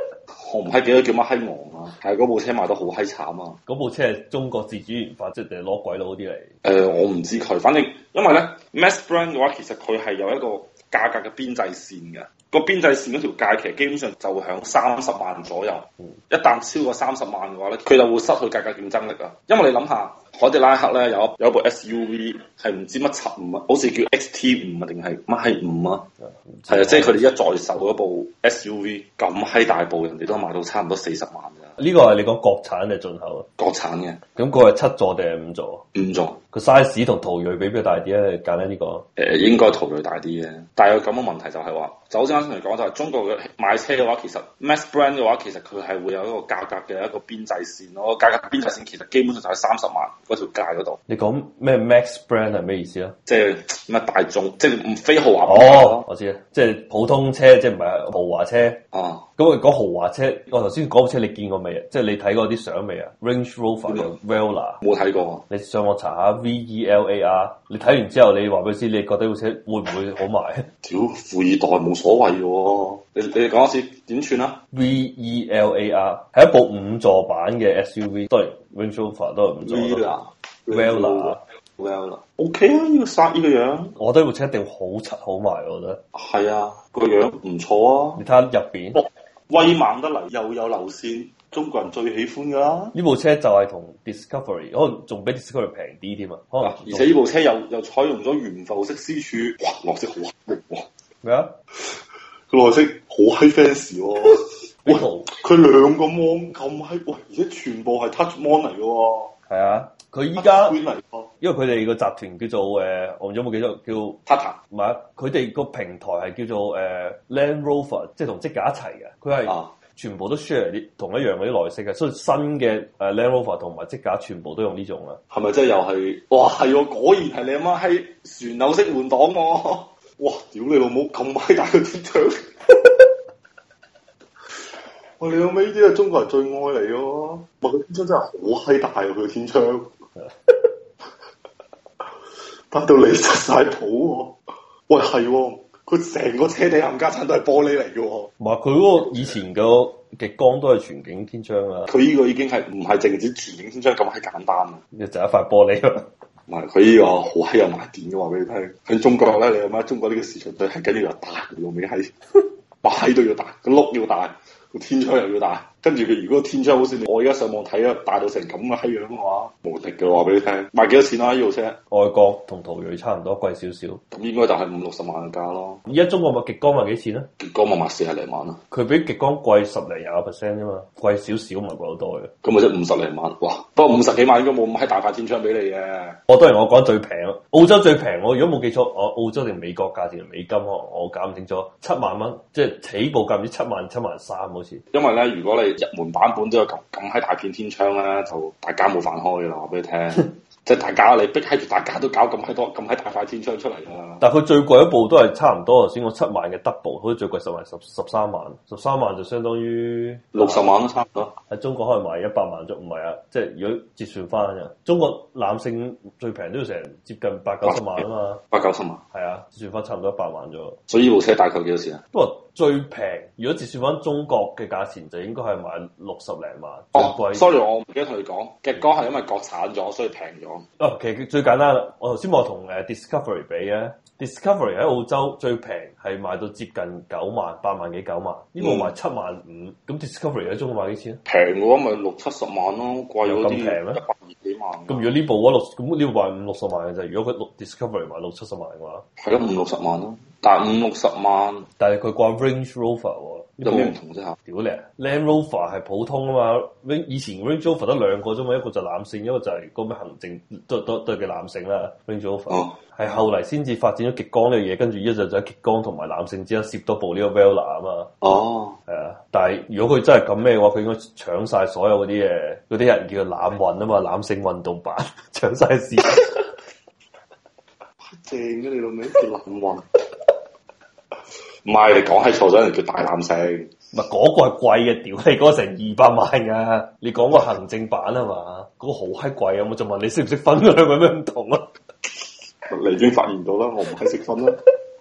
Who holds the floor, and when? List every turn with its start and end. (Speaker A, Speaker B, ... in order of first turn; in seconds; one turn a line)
Speaker A: 0.3-3.6
Speaker B: 3.7-6.5
Speaker A: 6.6-26.1
Speaker B: 26.2-27.1
Speaker A: 26.7-31.8
Speaker B: 31.8-33.5
Speaker A: 33.6-34.2
Speaker B: 34.4-35.9
Speaker A: 35.9-36.4
Speaker B: 36.5-39.1
Speaker A: 39.2-51.0
Speaker B: 51.1-53.2
Speaker A: 53.2-56.0
Speaker B: 55.5-58.8
Speaker A: 58.9-59.2
Speaker B: 59.4-64.8
Speaker A: 64.8-65.4
Speaker B: 65.5-70.7
Speaker A: 70.8-74.6
Speaker B: 74.7-80.1
Speaker A: 79.6-83.9
Speaker B: 80.7-81.4
Speaker B: 84.0-86.0
Speaker A: 86.1-88.2
Speaker B: 88.2-89.0
Speaker A: 89.0-92.9
Speaker B: 92.9-97.1
Speaker A: 96.6-100.9
Speaker B: 101.2-101.5
Speaker A: 102.5-109.3
Speaker B: 104.9-105.3
Speaker B: 109.5-110.8
Speaker A: 110.4-111.3
Speaker B: 111.4-125.2
Speaker A: 114.3-114.6
Speaker A: 119.5-119.8
Speaker A: 125.3-133.1
Speaker A: 135.2-139.9
Speaker A: 142.7-148.3
Speaker B: 148.4-151.9
Speaker A: 151.9-154.8
Speaker B: 154.9-156.1
Speaker A: 156.5-171.8
Speaker B: 171.9-174.0
Speaker A: 174.1-175.8
Speaker B: 175.9-177.3
Speaker A: 177.4-178.6
Speaker B: 178.7-182.3
Speaker A: 182.4-186.2
Speaker B: 186.3-194.8
Speaker A: 194.9-204.2
Speaker B: 204.2-210.7
Speaker A: 210.3-211.3
Speaker B: 211.5-218.4
Speaker A: 217.6-219.0
Speaker B: 219.1-220.8
Speaker A: 220.9-222.0
Speaker B: 222.1-227.5
Speaker A: 226.9-230.7
Speaker B: 230.8-241.2
Speaker A: 238.6-238.9
Speaker A: 241.2-245.1
Speaker B: 243.2-244.0
Speaker B: 244.9-249.1
Speaker A: 249.2-251.7
Speaker B: 251.8-253.9
Speaker A: 253.6-254.4
Speaker B: 254.5-268.1
Speaker A: 262.5-262.8
Speaker A: 268.2-268.8
Speaker B: 268.9-276.4
Speaker A: 278.0-279.9
Speaker A: 281.6-283.7
Speaker B: 283.9-291.7
Speaker A: 292.7-294.6